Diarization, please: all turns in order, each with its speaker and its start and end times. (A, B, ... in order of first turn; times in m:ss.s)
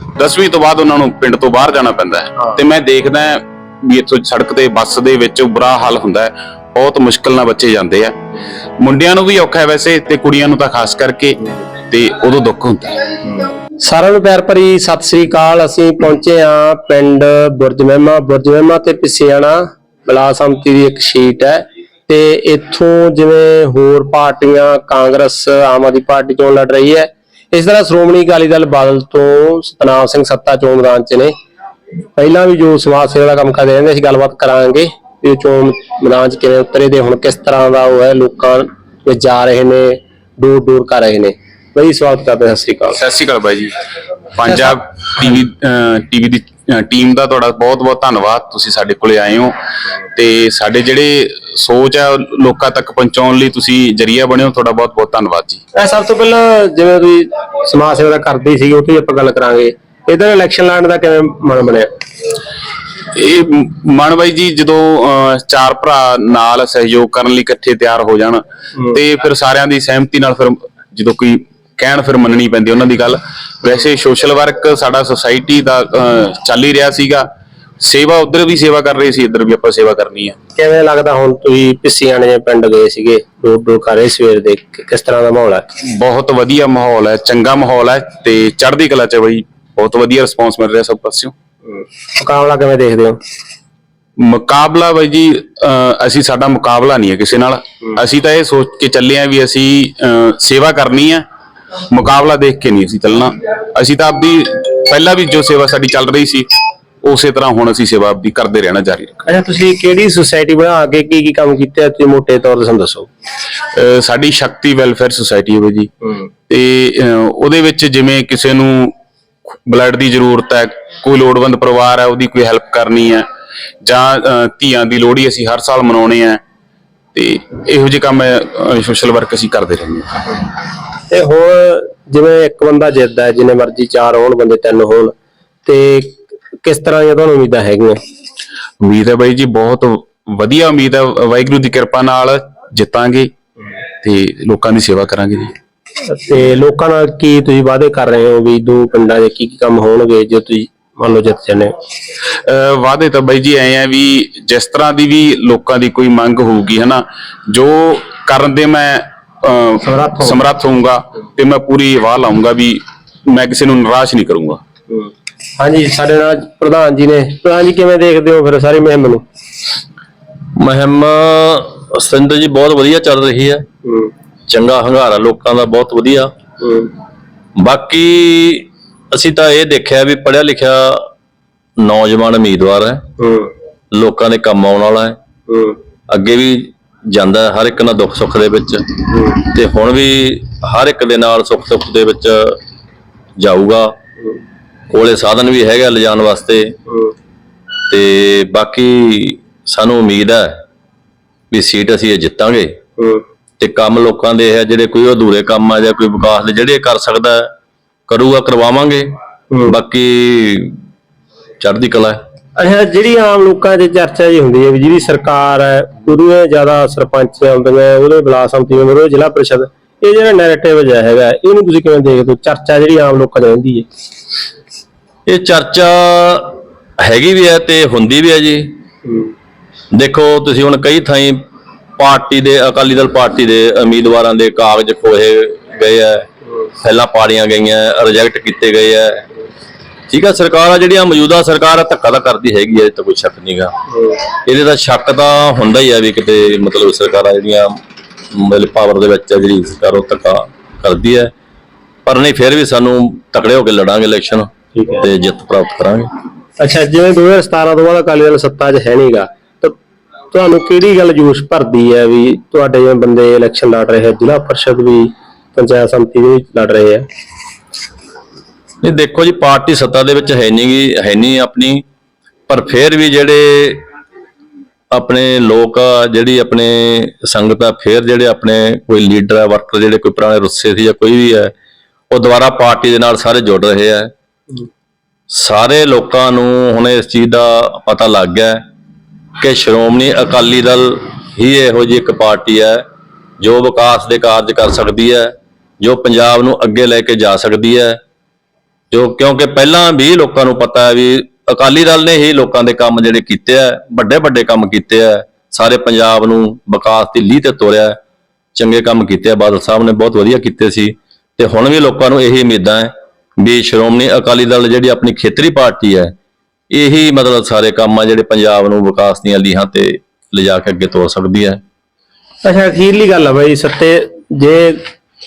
0:00.2-0:08.2 A
0:08.8-0:13.0 A
0:13.8-0:31.3 B
0:32.2-0:43.0 B
0:42.9-0:43.7 A
0:44.3-0:49.5 A
0:50.1-0:55.6 A
0:55.8-1:01.9 B
1:03.1-1:17.3 A
1:17.8-1:20.4 A
1:20.6-1:25.6 B
1:25.8-1:31.3 A
1:32.2-1:33.2 B
1:34.2-1:41.2 A
1:41.9-1:46.5 A
1:47.0-1:49.2 A
1:49.3-1:53.1 B
1:53.7-1:55.9 A
1:56.5-1:58.9 A
1:59.7-2:03.2 A
2:03.8-2:06.4 A
2:07.1-2:10.4 A
2:11.1-2:15.2 B
2:15.7-2:18.0 B
2:18.8-2:23.3 A
2:24.0-2:25.5 A
2:26.0-2:31.7 B
2:32.3-2:44.6 A
2:39.8-2:40.4 B
2:44.9-2:49.2 B
2:50.6-2:53.7 C
2:53.8-2:54.1 B
2:54.5-2:56.3 C
2:56.6-2:56.9 B
2:57.6-3:01.1 C
3:01.8-3:03.0 C
3:03.2-3:03.5 B
3:03.9-3:05.2 C
3:05.5-3:05.8 B
3:06.1-3:08.9 C
3:09.1-3:09.4 B
3:09.4-3:12.6 C
3:13.4-3:13.9 C
3:14.9-3:16.7 C
3:17.9-3:20.6 C
3:21.5-3:22.8 C
3:23.0-3:23.2 B
3:23.6-3:27.5 C
3:28.1-3:29.2 C
3:29.7-3:30.8 C
3:31.6-3:32.2 C
3:32.6-3:43.9 B
3:45.3-3:48.8 C
3:49.1-3:49.3 B
3:49.9-3:51.4 C
3:52.0-3:56.3 C
3:56.8-3:59.3 C
4:00.1-4:03.7 C
4:03.9-4:04.2 B
4:04.3-4:07.8 C
4:08.3-4:11.3 C
4:12.1-4:16.1 C
4:14.8-4:15.1 B
4:16.6-4:19.8 B
4:20.3-4:27.1 B
4:28.8-4:31.8 C
4:32.5-4:33.8 C
4:34.9-4:41.5 C
4:42.1-4:44.1 C
4:45.3-4:48.6 C
4:49.4-4:52.8 C
4:53.4-4:58.0 C
4:58.9-5:08.0 C
5:08.6-5:16.1 C
5:16.7-5:21.6 C
5:22.4-5:24.8 B